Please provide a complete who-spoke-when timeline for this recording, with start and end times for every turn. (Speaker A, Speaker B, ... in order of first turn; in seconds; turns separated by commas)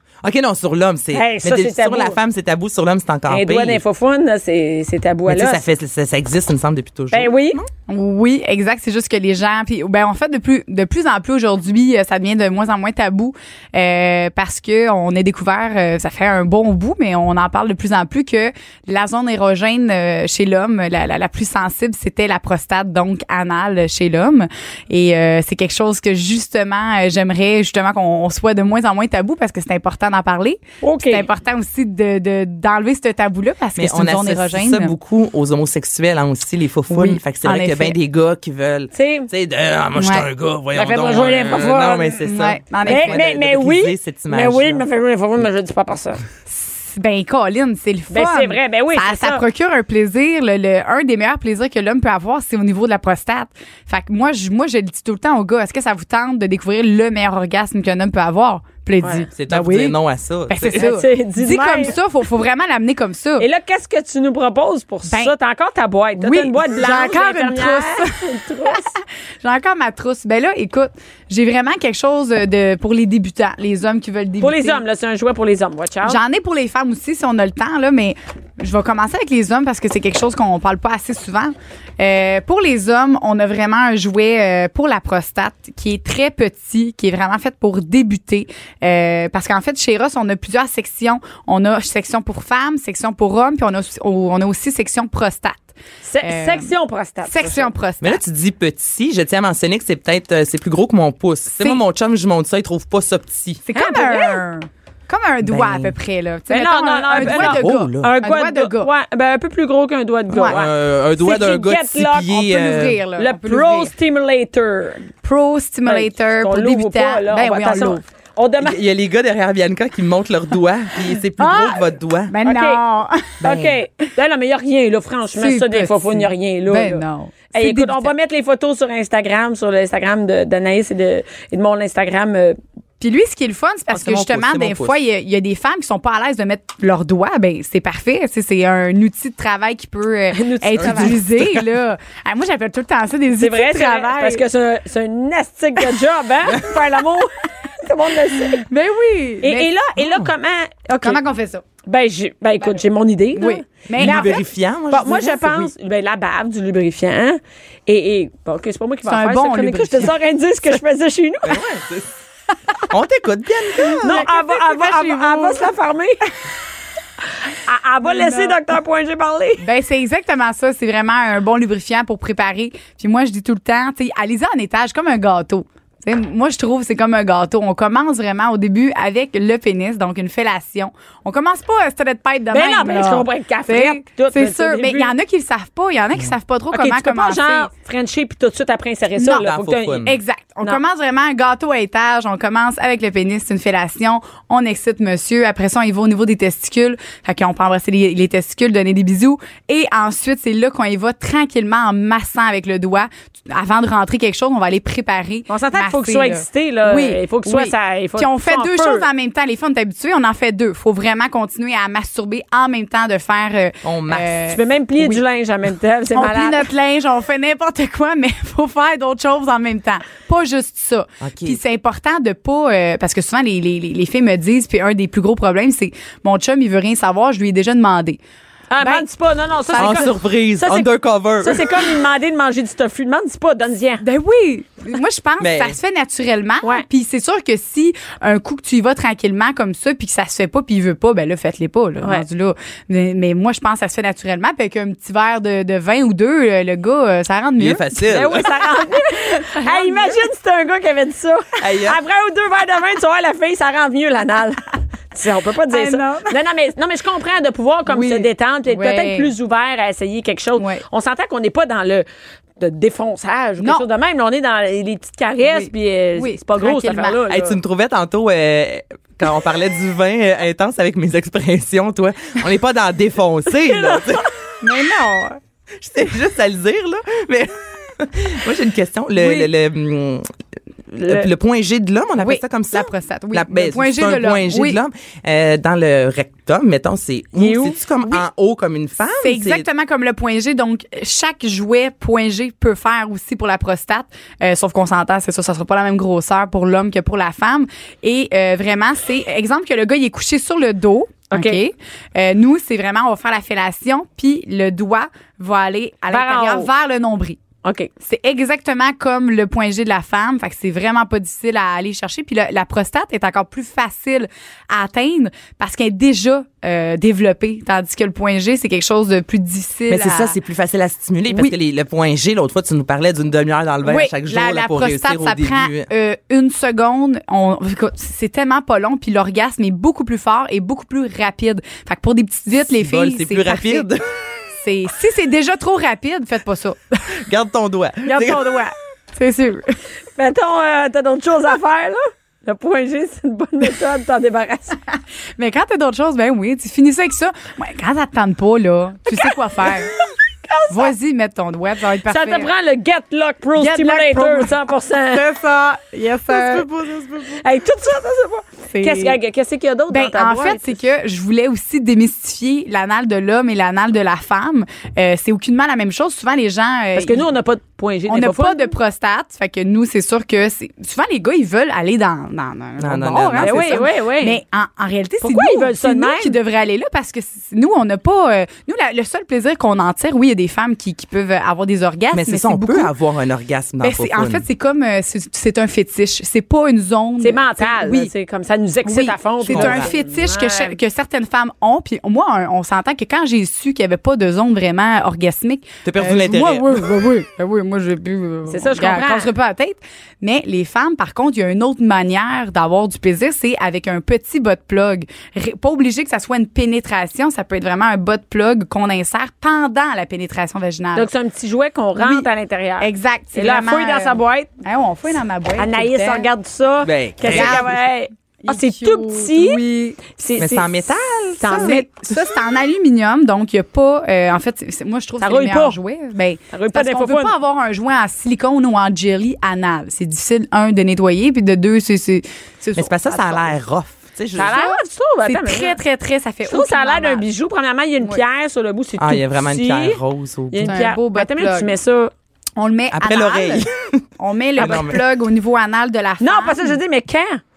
Speaker A: 0.2-3.8, Speaker B: 1.1-2.2, Speaker B: 3.3-5.6, Speaker A: 5.3-7.7, Speaker B: 7.1-7.6, Speaker C: 7.9-34.9, Speaker B: 30.8-31.3, Speaker A: 33.8-44.8, Speaker C: 36.9-38.0, Speaker B: 38.9-39.3, Speaker C: 40.0-40.3, Speaker B: 40.7-42.2, Speaker C: 42.2-43.2, Speaker B: 42.9-46.2, Speaker C: 46.5-60.0, Speaker B: 48.1-49.4, Speaker B: 59.0-59.3, Speaker A: 59.3-60.9, Speaker C: 60.5-63.5, Speaker B: 60.7-62.0, Speaker B: 63.4-69.0, Speaker C: 65.1-65.3, Speaker C: 66.2-74.8, Speaker B: 74.4-76.2, Speaker C: 76.0-95.7, Speaker B: 96.0-97.7, Speaker C: 96.2-96.7, Speaker C: 97.2-98.2, Speaker A: 98.0-103.6, Speaker C: 103.7-108.9, Speaker B: 103.7-104.4, Speaker A: 105.4-105.9, Speaker B: 106.5-112.3, Speaker A: 107.1-108.1, Speaker C: 110.3-110.6, Speaker A: 110.4-113.0, Speaker C: 112.3-113.9, Speaker B: 113.2-115.1, Speaker C: 115.2-118.0, Speaker B: 115.9-118.8, Speaker A: 118.6-122.3, Speaker C: 121.4-123.4, Speaker B: 122.5-122.8, Speaker A: 123.4-123.8, Speaker B: 123.4-132.6, Speaker C: 125.3-128.1, Speaker C: 133.0-144.4, Speaker A: 133.9-135.0, Speaker B: 140.3-141.2, Speaker A: 140.8-141.6, Speaker B: 143.3-148.7, Speaker C: 148.6-149.7, Speaker B: 149.4-151.2, Speaker A: 150.0-150.3, Speaker C: 150.9-151.6, Speaker B: 151.8-154.4, Speaker C: 153.3-154.5, Speaker A: 154.0-155.6, Speaker B: 154.9-161.6, Speaker C: 155.0-155.6, Speaker C: 159.1-160.2, Speaker A: 161.5-162.1, Speaker A: 162.9-164.3, Speaker C: 163.8-165.7, Speaker B: 164.0-166.3, Speaker B: 167.6-169.6, Speaker C: 168.1-168.6, Speaker C: 169.6-187.7, Speaker B: 182.5-185.1, Speaker B: 186.7-190.1, Speaker A: 189.4-190.2, Speaker C: 190.0-215.2, Speaker B: 205.5-209.1, Speaker A: 213.8-214.3, Speaker B: 214.5-216.7, Speaker C: 216.2-228.2, Speaker A: 221.2-221.6, Speaker B: 228.7-230.9, Speaker C: 229.7-230.1, Speaker A: 229.8-231.8, Speaker B: 231.4-234.0, Speaker C: 234.0-247.9, Speaker A: 235.4-235.8, Speaker A: 247.6-248.5, Speaker B: 248.1-262.1, Speaker C: 249.5-250.2, Speaker A: 251.6-252.0, Speaker C: 255.7-256.4, Speaker C: 257.9-259.3, Speaker C: 260.6-260.8, Speaker B: 262.6-267.6, Speaker C: 263.6-263.9, Speaker C: 265.4-267.2, Speaker A: 267.3-274.3, Speaker B: 273.6-274.3, Speaker C: 274.6-275.4, Speaker A: 275.8-280.3, Speaker A: 280.9-289.7, Speaker C: 282.2-284.8, Speaker B: 287.4-287.8, Speaker C: 289.2-307.4, Speaker B: 301.3-301.6, Speaker B: 306.1-306.7, Speaker B: 307.6-307.9, Speaker C: 308.0-320.4, Speaker A: 319.9-325.9, Speaker C: 323.8-333.9, Speaker A: 332.7-334.1, Speaker C: 334.6-337.0, Speaker A: 337.2-338.6, Speaker B: 338.1-338.7, Speaker C: 339.1-339.8, Speaker B: 340.1-344.8, Speaker C: 345.4-349.9, Speaker B: 349.2-350.9, Speaker C: 350.7-352.5, Speaker B: 352.1-355.3, Speaker C: 353.6-356.7, Speaker A: 356.4-357.4, Speaker B: 357.3-360.8, Speaker C: 358.7-359.2, Speaker C: 359.9-367.3, Speaker B: 366.9-368.7, Speaker C: 368.1-382.9, Speaker A: 372.8-373.8, Speaker B: 373.4-374.4, Speaker B: 375.2-376.4, Speaker A: 382.1-384.5, Speaker C: 383.8-388.1, Speaker B: 387.2-390.8, Speaker C: 388.9-411.1, Speaker A: 389.5-389.9, Speaker A: 395.8-396.9, Speaker B: 398.5-399.3, Speaker B: 410.9-414.5, Speaker C: 412.0-412.3, Speaker C: 412.8-416.3, Speaker B: 415.6-420.7, Speaker A: 416.8-417.8, Speaker C: 417.2-417.8, Speaker C: 418.4-420.0, Speaker A: 420.4-422.0, Speaker B: 421.4-421.9, Speaker C: 421.5-433.6, Speaker B: 425.2-425.8, Speaker B: 426.5-427.3, Speaker A: 432.8-434.6, Speaker B: 434.4-435.8, Speaker C: 434.5-437.2, Speaker B: 436.5-440.0, Speaker A: 439.0-440.8, Speaker B: 440.5-442.1, Speaker C: 440.6-441.7, Speaker C: 442.6-446.8, Speaker A: 442.9-444.0, Speaker A: 444.6-445.0, Speaker B: 446.2-447.4